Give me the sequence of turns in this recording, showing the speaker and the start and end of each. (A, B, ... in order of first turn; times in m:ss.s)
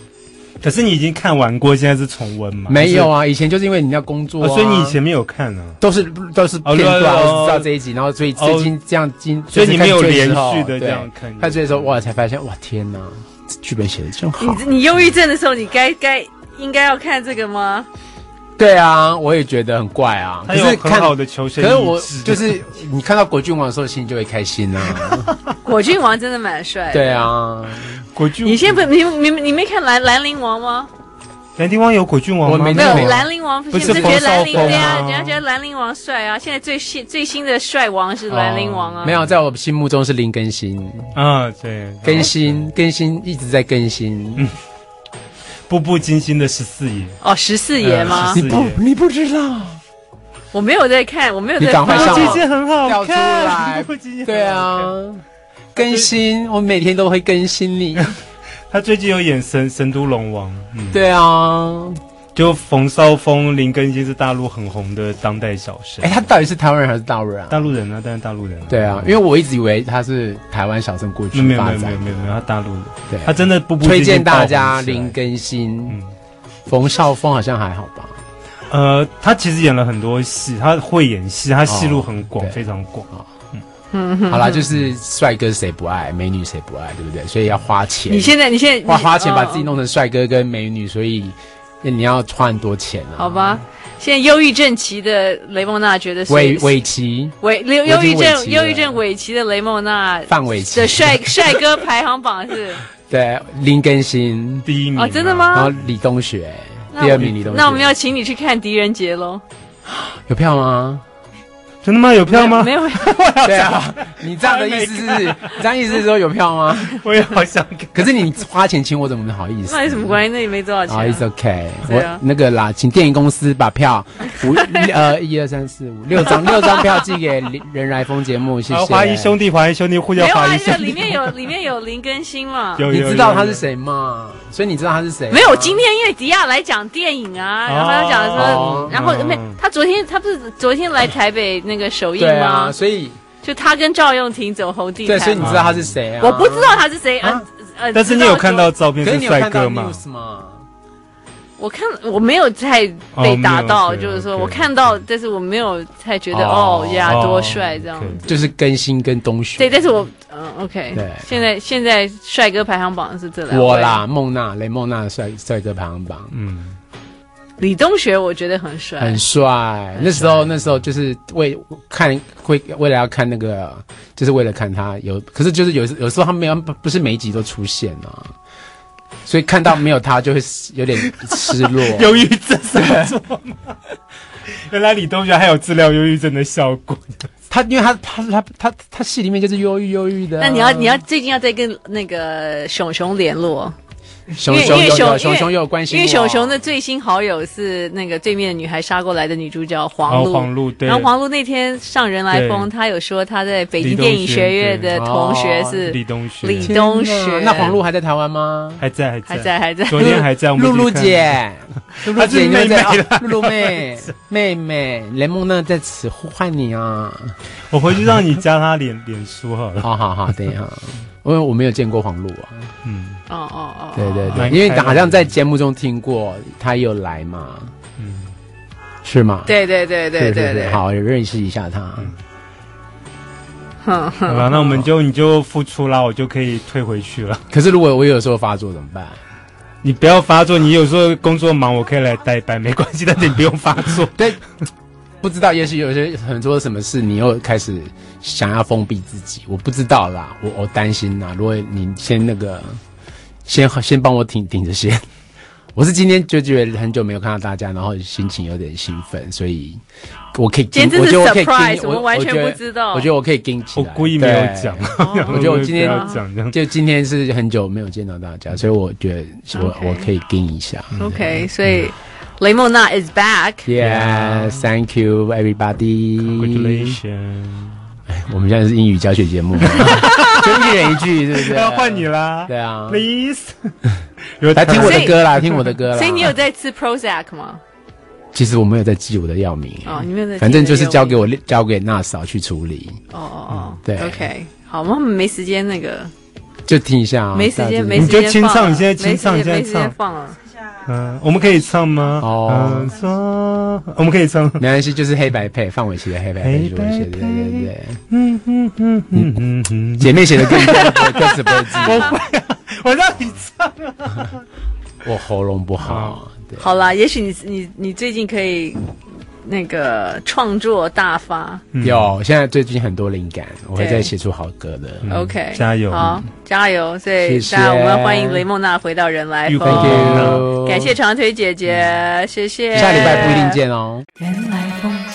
0:00.6-0:03.1 A
0:02.7-0:05.0 B
0:04.4-0:05.8 A
0:05.8-0:14.7 B
0:06.6-0:07.7 A
0:08.4-0:08.7 A
0:09.5-0:12.0 A
0:14.4-0:17.9 C
0:18.6-0:25.3 B
0:20.5-0:22.6 A
0:24.9-0:25.4 A
0:25.6-0:27.3 C
0:26.9-0:28.0 B
0:28.1-0:28.9 A
0:28.4-0:30.9 C
0:31.6-0:35.4 A
0:32.4-0:35.1 B
0:32.7-0:39.2 C
0:38.3-0:41.1 B
0:39.0-0:39.3 A
0:41.1-0:42.6 A
0:42.0-0:44.5 B
0:45.7-0:47.2 A
0:47.2-0:48.4 C
0:47.8-0:49.8 B
0:47.8-0:48.8 A
0:50.5-0:52.4 C
0:51.6-0:55.2 B
0:51.8-0:55.0 A
0:55.7-0:58.1 B
0:55.8-0:56.1 A
0:58.7-1:01.0 A
1:00.9-1:02.0 B
1:02.4-1:06.2 A
1:06.0-1:07.6 B
1:07.5-1:09.1 A
1:08.7-1:12.3 B
1:11.3-1:15.1 A
1:13.1-1:16.0 B
1:16.7-1:18.2 B
1:18.7-1:23.6 A
1:21.7-1:22.6 B
1:23.9-1:24.6 C
1:24.3-1:33.6 B
1:28.1-1:29.7 C
1:33.2-1:36.8 C
1:36.3-1:39.0 B
1:37.4-1:42.8 C
1:40.3-1:41.6 B
1:43.1-1:44.7 B
1:44.6-1:45.9 A
1:45.0-1:45.7 C
1:45.5-1:47.9 B
1:46.9-1:49.4 C
1:47.0-1:47.4 A
1:49.9-1:51.0 B
1:51.8-1:55.6 A
1:52.3-1:53.2 C
1:53.4-1:57.0 B
1:56.9-1:58.1 A
1:57.9-2:00.2 B
1:59.7-2:01.2 C
2:00.9-2:09.4 B
2:01.8-2:02.2 C
2:04.4-2:04.8 C
2:08.7-2:11.4 A
2:10.2-2:12.8 C
2:12.8-2:13.6 A
2:12.9-2:15.8 B
2:15.3-2:22.7 C
2:17.7-2:19.6 A
2:18.4-2:19.0 B
2:22.2-2:23.2 B
2:23.4-2:25.6 C
2:25.0-2:27.4 B
2:25.4-2:26.0 A
2:26.2-2:28.7 C
2:27.9-2:30.0 A
2:29.0-2:30.6 B
2:31.6-2:38.3 C
2:33.1-2:35.0 A
2:36.3-2:37.6 B
2:37.0-2:38.2 A
2:38.2-2:39.9 B
2:39.6-2:44.0 C
2:40.9-2:41.3 B
2:43.5-2:46.4 B
2:46.3-2:46.8 A
2:47.6-2:49.2 C
2:49.0-2:58.3 B
2:50.0-2:50.2 C
2:59.3-3:02.2 B
3:01.0-3:03.8 A
3:02.7-3:03.1 B
3:04.7-3:07.3 A
3:07.5-3:11.0 B
3:10.4-3:13.7 C
3:14.3-3:16.6 B
3:14.4-3:27.8 C
3:20.1-3:21.1 A
3:22.3-3:22.7 A
3:23.8-3:25.0 A
3:24.9-3:25.9 B
3:25.9-3:26.7 A
3:26.6-3:28.8 B
3:28.8-3:31.4 A
3:29.3-3:30.2 C
3:30.0-3:37.4 B
3:31.9-3:34.0 A
3:37.7-3:39.9 A
3:39.8-3:42.7 B
3:42.8-3:43.2 A
3:43.3-3:44.6 C
3:44.0-3:47.7 B
3:44.3-3:45.3 A
3:48.0-3:48.3 A
3:49.0-3:49.6 B
3:49.4-3:50.8 C
3:50.1-3:52.1 B
3:53.8-3:54.8 C
3:54.3-3:57.4 A
3:57.5-3:59.2 B
3:59.8-4:04.1 A
4:04.1-4:04.4 B
4:05.2-4:12.8 B
4:13.4-4:15.0 B
4:15.8-4:19.8 B
4:20.3-4:31.1 B
4:20.7-4:23.1 C
4:23.8-4:26.6 A
4:25.0-4:26.2 C
4:29.5-4:30.1 C
4:31.0-4:31.9 A
4:31.0-4:33.7 C
4:33.6-4:37.0 B
4:33.8-4:34.7 A
4:36.2-4:37.8 A
4:38.1-4:43.0 B
4:39.8-4:43.7 A
4:39.8-4:40.4 C
4:44.4-4:45.7 A
4:44.6-4:46.4 B
4:44.7-4:45.2 C
4:45.9-4:47.6 C
4:48.3-4:53.0 B
4:49.8-4:51.2 C
4:53.1-4:56.1 C
4:53.5-4:53.8 A
4:53.8-4:54.3 B
4:56.7-4:58.2 B
4:57.3-5:00.4 C
4:58.0-5:00.0 A
5:00.8-5:04.6 A
5:02.2-5:02.9 B
5:04.6-5:08.0 B
5:06.4-5:14.4 A
5:09.1-5:09.4 B
5:10.0-5:12.2 B
5:11.2-5:12.2 C
5:15.0-5:16.7 B
5:15.8-5:16.2 A
5:16.6-5:18.9 C
5:19.4-5:21.6 C
5:21.7-5:22.1 A
5:21.8-5:25.1 B
5:23.8-5:24.1 C
5:25.0-5:26.2 A
5:25.1-5:33.6 C
5:27.2-5:28.4 B
5:29.5-5:30.5 A
5:29.6-5:30.9 B
5:32.7-5:34.1 B
5:32.8-5:33.3 A
5:34.3-5:34.7 C